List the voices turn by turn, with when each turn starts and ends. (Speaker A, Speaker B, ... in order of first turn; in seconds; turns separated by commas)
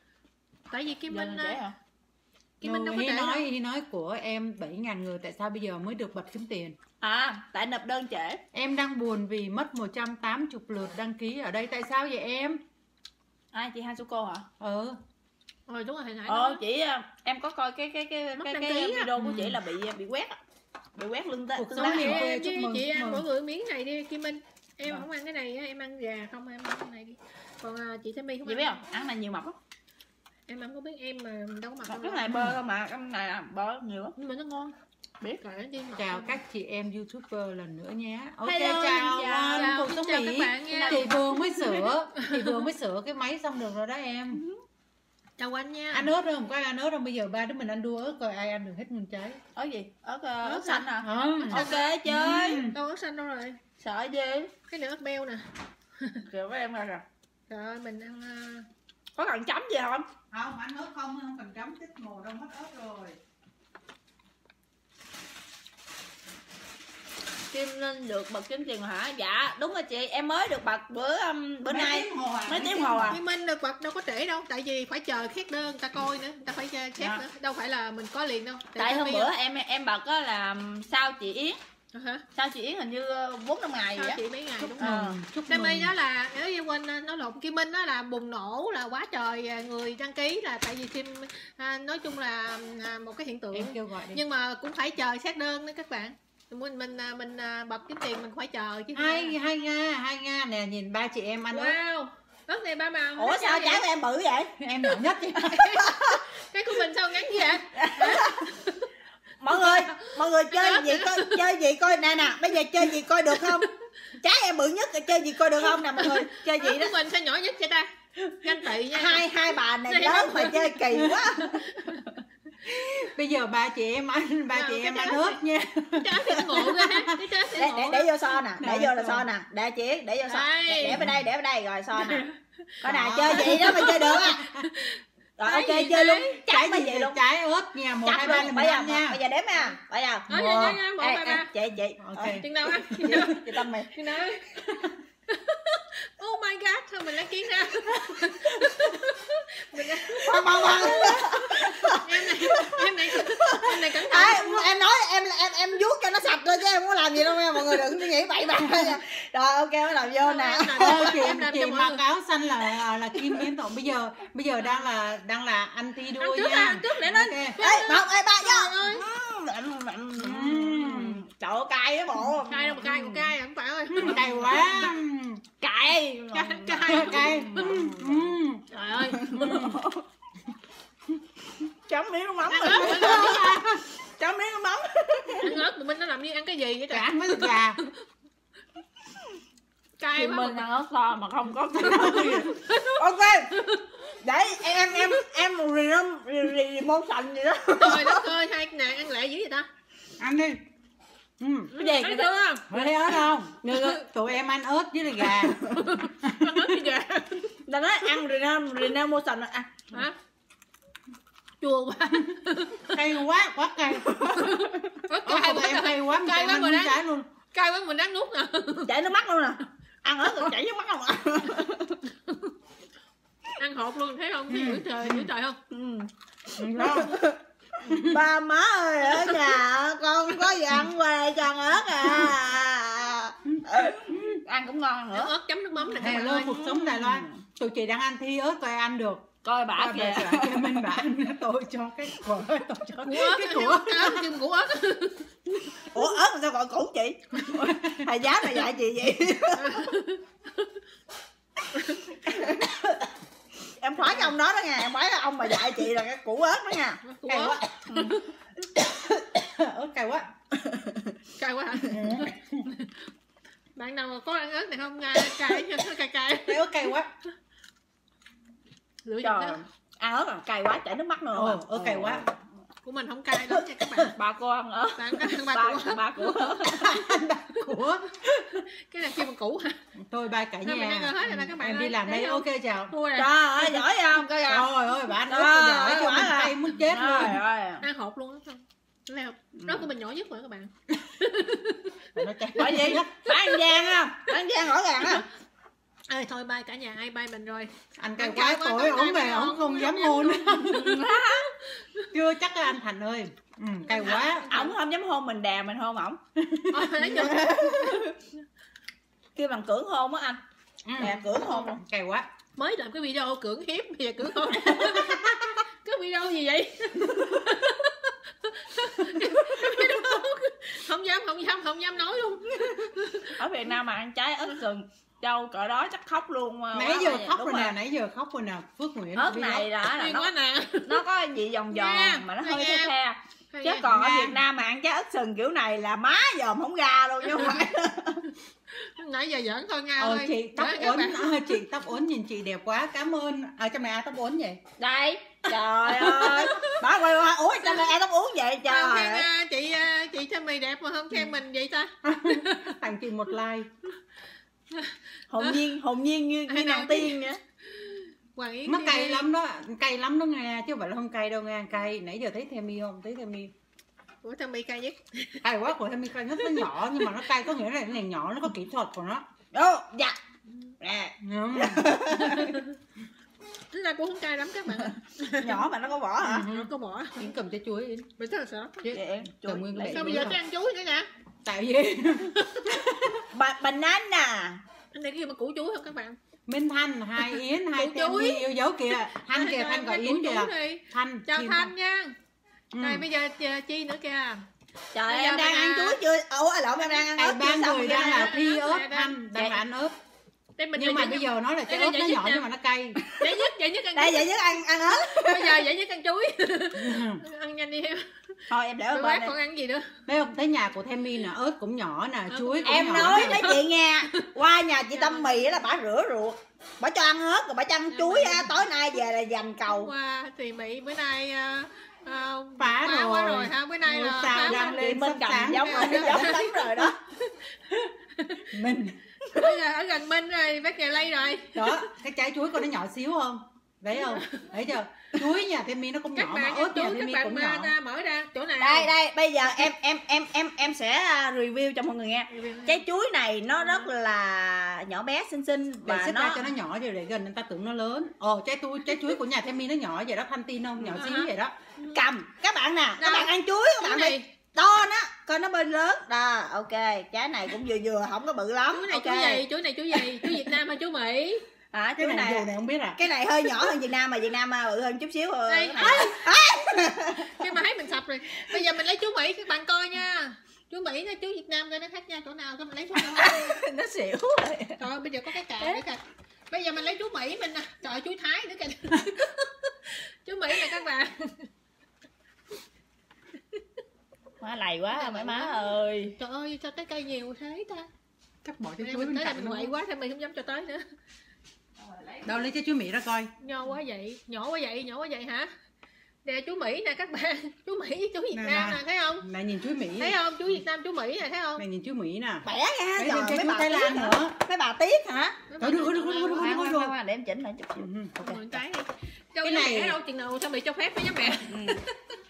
Speaker A: 0.7-1.6, Speaker B: 1.1-1.8, Speaker A: 2.6-3.5, Speaker C: 2.6-6.8, Speaker B: 7.0-8.4, Speaker C: 8.5-12.6, Speaker B: 13.5-14.5, Speaker C: 14.6-15.0, Speaker A: 15.7-16.6, Speaker B: 16.3-20.4, Speaker A: 18.4-19.1, Speaker C: 19.2-19.6, Speaker B: 21.0-22.3, Speaker C: 21.6-23.3, Speaker A: 21.8-28.8, Speaker B: 28.5-29.6, Speaker A: 30.5-32.4, Speaker B: 31.9-34.1, Speaker C: 32.3-32.6, Speaker A: 34.2-34.8, Speaker A: 35.4-36.4, Speaker C: 36.0-44.4, Speaker B: 38.4-39.7, Speaker A: 39.5-42.6, Speaker B: 40.7-41.1, Speaker B: 44.3-44.6, Speaker A: 45.4-46.1, Speaker C: 45.9-49.4, Speaker B: 49.5-52.6, Speaker A: 50.4-52.0, Speaker C: 51.0-52.8, Speaker A: 52.6-53.6, Speaker B: 53.8-54.5, Speaker A: 54.7-56.2, Speaker B: 56.2-57.0, Speaker A: 57.5-58.7, Speaker B: 59.1-60.1, Speaker C: 60.3-63.2, Speaker B: 67.5-73.2, Speaker C: 71.7-73.2, Speaker A: 73.1-79.3, Speaker B: 77.0-77.2, Speaker B: 78.8-81.6, Speaker A: 81.9-82.2, Speaker B: 82.3-84.2, Speaker A: 84.0-84.9, Speaker C: 84.6-85.9, Speaker B: 84.8-85.2, Speaker A: 85.5-99.3, Speaker C: 93.5-94.2, Speaker C: 98.9-101.8, Speaker A: 101.5-103.8, Speaker B: 103.2-104.7, Speaker C: 104.6-105.7, Speaker A: 105.3-108.9, Speaker B: 105.4-106.2, Speaker B: 107.8-108.4, Speaker B: 109.4-116.9, Speaker A: 109.5-111.4, Speaker A: 113.3-113.7, Speaker A: 115.8-117.9, Speaker B: 118.3-122.1, Speaker A: 118.4-119.2, Speaker A: 119.9-122.1, Speaker C: 122.7-127.2, Speaker A: 124.5-125.4, Speaker A: 125.9-128.1, Speaker B: 127.5-132.3, Speaker C: 128.6-129.3, Speaker A: 130.3-131.0, Speaker C: 130.8-131.2, Speaker A: 131.9-132.4, Speaker B: 132.8-134.4, Speaker C: 132.8-134.7, Speaker A: 133.3-136.4, Speaker B: 135.4-137.2, Speaker C: 136.5-139.2, Speaker B: 138.1-144.0, Speaker C: 140.3-140.8, Speaker A: 140.3-141.5, Speaker C: 142.0-142.5, Speaker A: 142.3-154.7, Speaker C: 144.7-144.9, Speaker B: 150.2-161.3, Speaker A: 160.2-162.0, Speaker C: 160.8-167.6, Speaker A: 166.2-169.1, Speaker B: 167.6-173.3, Speaker C: 170.2-171.2, Speaker A: 172.5-174.8, Speaker C: 173.9-175.4, Speaker B: 174.0-174.9, Speaker B: 175.6-178.3, Speaker A: 176.3-177.8, Speaker C: 176.8-178.6, Speaker A: 178.7-179.5, Speaker B: 179.0-180.1, Speaker C: 179.2-179.8, Speaker B: 181.7-185.6, Speaker C: 182.5-183.9, Speaker A: 182.6-183.5, Speaker A: 185.4-187.9, Speaker C: 186.9-187.8, Speaker A: 190.0-190.7, Speaker B: 190.2-193.6, Speaker A: 191.8-193.9, Speaker C: 191.8-192.4, Speaker B: 194.2-198.3, Speaker A: 194.9-195.2, Speaker A: 197.8-199.7, Speaker C: 200.2-200.6, Speaker C: 201.4-201.7, Speaker A: 201.7-204.0, Speaker B: 201.8-202.4, Speaker C: 202.7-206.8, Speaker B: 205.4-205.8, Speaker A: 205.5-207.3, Speaker B: 206.7-209.8, Speaker A: 209.9-210.2, Speaker A: 211.6-213.0, Speaker C: 212.9-214.5, Speaker B: 214.1-214.7, Speaker A: 214.3-217.0, Speaker C: 215.1-217.3, Speaker A: 217.5-218.9, Speaker B: 218.9-222.0, Speaker A: 222.1-222.6, Speaker A: 223.6-225.6, Speaker C: 224.5-225.3, Speaker B: 225.7-235.3, Speaker C: 226.6-227.2, Speaker C: 227.9-228.2, Speaker C: 233.5-234.4, Speaker A: 235.1-236.6, Speaker C: 235.9-244.3, Speaker B: 236.0-237.4, Speaker B: 239.4-241.0, Speaker A: 243.0-245.3, Speaker B: 245.9-250.0, Speaker C: 247.7-248.1, Speaker A: 249.6-250.7, Speaker A: 251.7-252.0, Speaker B: 252.1-253.1, Speaker B: 253.8-257.0, Speaker A: 254.0-254.3, Speaker A: 257.0-258.3, Speaker C: 257.3-257.9, Speaker B: 257.9-258.2, Speaker C: 259.4-260.3, Speaker B: 260.5-261.2, Speaker A: 261.4-263.1, Speaker C: 261.9-262.7, Speaker A: 263.8-266.9, Speaker C: 266.4-267.1, Speaker A: 269.1-269.6, Speaker B: 269.2-272.4, Speaker C: 271.3-272.3, Speaker A: 272.9-274.2, Speaker B: 274.0-277.1, Speaker A: 275.0-276.6, Speaker C: 276.7-278.7, Speaker A: 278.7-279.8, Speaker C: 280.0-282.9, Speaker A: 280.6-283.7, Speaker B: 283.2-284.7, Speaker C: 284.4-287.4, Speaker B: 285.3-287.9, Speaker A: 287.8-293.4, Speaker B: 289.6-289.9, Speaker C: 292.2-293.2, Speaker B: 292.6-295.3, Speaker A: 296.1-302.1, Speaker C: 298.0-301.0, Speaker B: 300.6-301.5, Speaker C: 302.1-304.5, Speaker A: 303.9-304.7, Speaker B: 304.5-306.2, Speaker C: 306.4-307.5, Speaker A: 306.7-308.0, Speaker B: 307.1-308.2, Speaker B: 309.4-310.4, Speaker C: 310.9-312.3, Speaker B: 311.0-311.8, Speaker A: 312.6-323.4, Speaker C: 314.7-315.6, Speaker B: 323.4-327.7, Speaker C: 326.7-329.7, Speaker B: 329.1-330.3, Speaker A: 329.9-331.0, Speaker B: 330.8-338.3, Speaker A: 331.7-332.9, Speaker A: 333.5-333.9, Speaker C: 333.8-334.4, Speaker A: 338.7-341.5, Speaker C: 340.0-344.6, Speaker B: 344.8-349.3, Speaker A: 346.0-346.8, Speaker A: 348.7-352.8, Speaker C: 352.0-353.7, Speaker A: 354.7-355.7, Speaker B: 355.3-357.4, Speaker A: 356.5-359.3, Speaker C: 358.7-363.5, Speaker A: 364.2-365.4, Speaker C: 365.4-369.2, Speaker A: 366.4-367.2, Speaker B: 369.5-370.2, Speaker B: 370.8-372.6, Speaker C: 371.2-372.0, Speaker A: 372.2-372.8, Speaker A: 373.7-375.7, Speaker B: 374.9-376.5, Speaker C: 376.2-378.1, Speaker A: 376.4-377.3, Speaker A: 378.2-378.9, Speaker C: 378.8-380.4, Speaker B: 378.9-380.4, Speaker A: 379.9-381.1, Speaker C: 381.4-383.2, Speaker A: 382.4-382.8, Speaker B: 383.3-384.6, Speaker A: 384.9-386.2, Speaker C: 386.5-391.7, Speaker A: 387.2-392.2, Speaker C: 392.7-393.1, Speaker A: 392.8-394.4, Speaker B: 394.9-398.3, Speaker A: 395.1-396.0, Speaker C: 397.2-399.9, Speaker A: 397.8-399.2, Speaker B: 399.4-399.6, Speaker A: 400.6-402.5, Speaker C: 400.8-403.0, Speaker B: 403.0-403.3, Speaker A: 403.1-410.0, Speaker B: 404.0-405.6, Speaker C: 406.8-407.2, Speaker B: 408.5-409.3, Speaker C: 410.1-413.5, Speaker A: 412.3-413.6, Speaker B: 412.6-419.9, Speaker A: 414.9-415.4, Speaker A: 417.9-418.6, Speaker A: 419.7-424.9, Speaker C: 422.6-426.4, Speaker B: 424.4-427.0, Speaker A: 425.5-428.6, Speaker C: 428.5-429.0, Speaker A: 429.2-431.9, Speaker C: 431.6-437.7, Speaker A: 433.9-434.5, Speaker A: 436.1-438.9, Speaker B: 438.6-446.5, Speaker A: 442.3-442.8, Speaker A: 443.6-443.9, Speaker C: 445.9-451.6, Speaker A: 451.0-452.0, Speaker B: 451.9-460.5, Speaker A: 453.0-454.3, Speaker A: 458.7-461.4, Speaker B: 461.7-467.5, Speaker C: 462.0-463.0, Speaker A: 465.5-466.3, Speaker A: 467.3-473.6, Speaker B: 473.1-474.8, Speaker A: 474.8-481.5, Speaker B: 484.4-486.2, Speaker A: 484.9-487.9, Speaker C: 488.4-489.7, Speaker A: 488.8-490.9, Speaker B: 491.8-492.4, Speaker C: 492.2-493.3, Speaker A: 493.4-495.5, Speaker A: 496.2-499.3, Speaker C: 498.3-500.2, Speaker A: 500.0-501.6, Speaker C: 501.6-502.5, Speaker B: 502.4-505.4, Speaker C: 503.0-504.4, Speaker A: 505.5-506.6, Speaker C: 505.6-506.9, Speaker B: 506.3-508.4, Speaker C: 507.8-508.3, Speaker A: 508.2-512.2, Speaker C: 509.4-510.0, Speaker B: 511.5-511.8